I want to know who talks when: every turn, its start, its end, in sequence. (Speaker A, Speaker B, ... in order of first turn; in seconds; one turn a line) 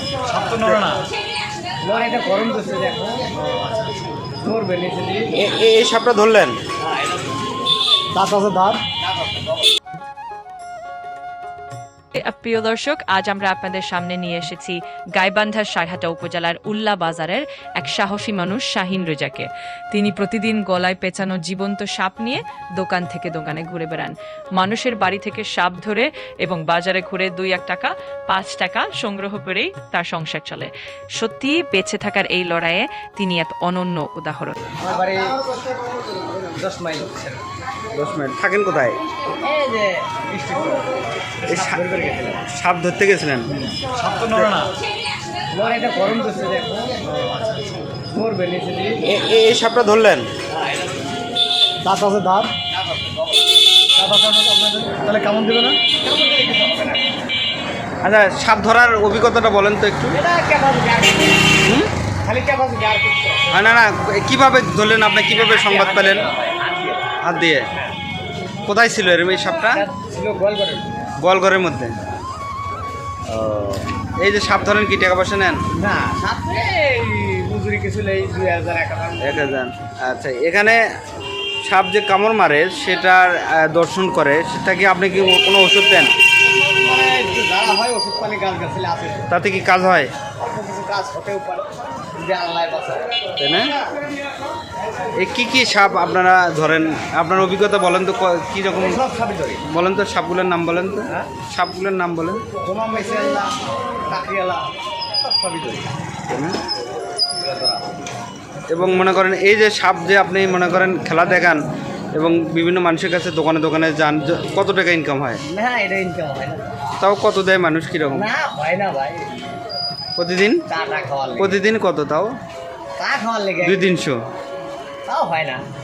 Speaker A: 0.2-1.0
Speaker B: 1.8-3.3
Speaker B: 4.4-5.3
Speaker C: 5.3-6.6
Speaker B: 6.8-7.3
Speaker A: 8.1-8.8
Speaker B: 8.9-9.7
Speaker D: 12.1-34.6
Speaker B: 34.8-35.6
Speaker B: 36.4-37.5
Speaker C: 37.9-39.0
Speaker B: 39.4-42.4
Speaker C: 41.5-41.8
Speaker C: 42.5-43.5
Speaker A: 43.9-44.7
Speaker B: 45.5-47.0
Speaker A: 47.1-47.5
Speaker B: 48.1-49.0
Speaker C: 49.0-50.3
Speaker B: 50.5-51.0
Speaker A: 51.8-52.5
Speaker B: 52.6-53.4
Speaker A: 54.0-55.9
Speaker B: 55.9-57.1
Speaker C: 58.0-60.2
Speaker B: 60.1-61.6
Speaker C: 61.6-61.9
Speaker B: 62.2-63.4
Speaker C: 63.5-66.3
Speaker B: 65.3-67.1
Speaker C: 67.2-67.7
Speaker B: 67.7-68.0
Speaker C: 68.7-69.8
Speaker B: 69.6-70.9
Speaker C: 71.2-71.9
Speaker C: 73.3-75.6
Speaker B: 75.8-79.4
Speaker C: 79.2-80.8
Speaker C: 81.6-86.1
Speaker B: 86.5-89.3
Speaker C: 89.3-90.1
Speaker B: 90.4-93.1
Speaker C: 93.4-93.7
Speaker C: 95.2-99.0
Speaker B: 98.8-99.6
Speaker C: 99.6-102.4
Speaker B: 102.6-103.5
Speaker B: 104.1-105.9
Speaker C: 106.3-106.6
Speaker B: 107.4-107.8
Speaker C: 108.7-111.6
Speaker C: 112.1-115.4
Speaker B: 115.5-116.7
Speaker C: 117.0-118.2
Speaker B: 118.1-119.3
Speaker C: 120.2-120.6
Speaker B: 120.7-121.6
Speaker C: 121.4-122.3
Speaker B: 123.0-123.9
Speaker C: 123.6-124.2
Speaker B: 125.0-125.6